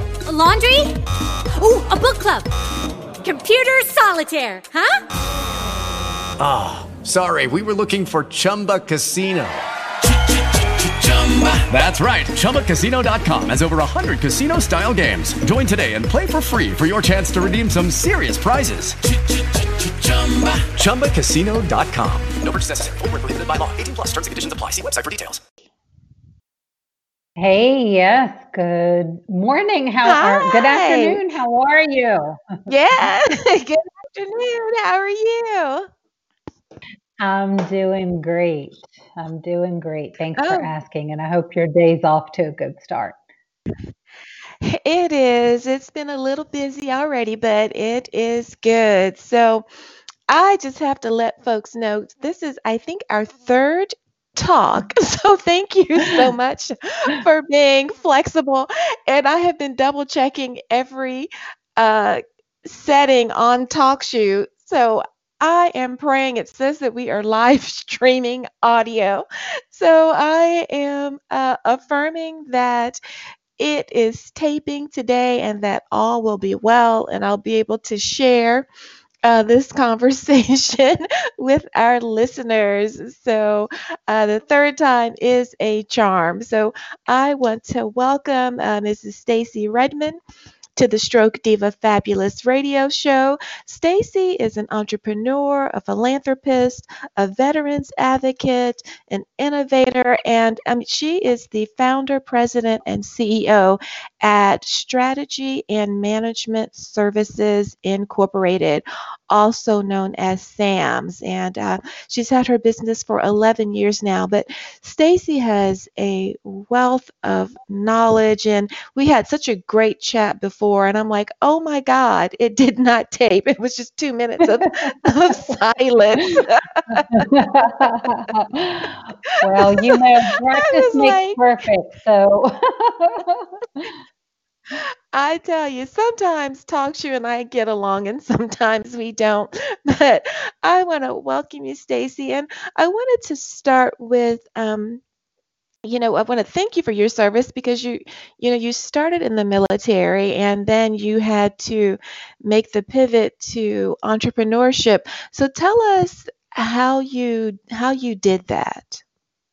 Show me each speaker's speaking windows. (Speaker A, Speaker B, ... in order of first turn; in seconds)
Speaker A: 0.2-0.9, 1.6-2.5, 3.2-5.0
Speaker B: 6.4-9.6, 10.8-19.0, 19.7-25.4
Speaker C: 27.4-32.6, 37.2-43.2, 127.0-133.5
Speaker D: 30.0-31.3, 32.7-35.9, 40.4-40.7, 44.6-49.6, 50.3-73.0, 73.6-78.7, 79.2-90.2, 90.8-127.8, 129.5-131.4, 134.7-145.0, 145.8-159.0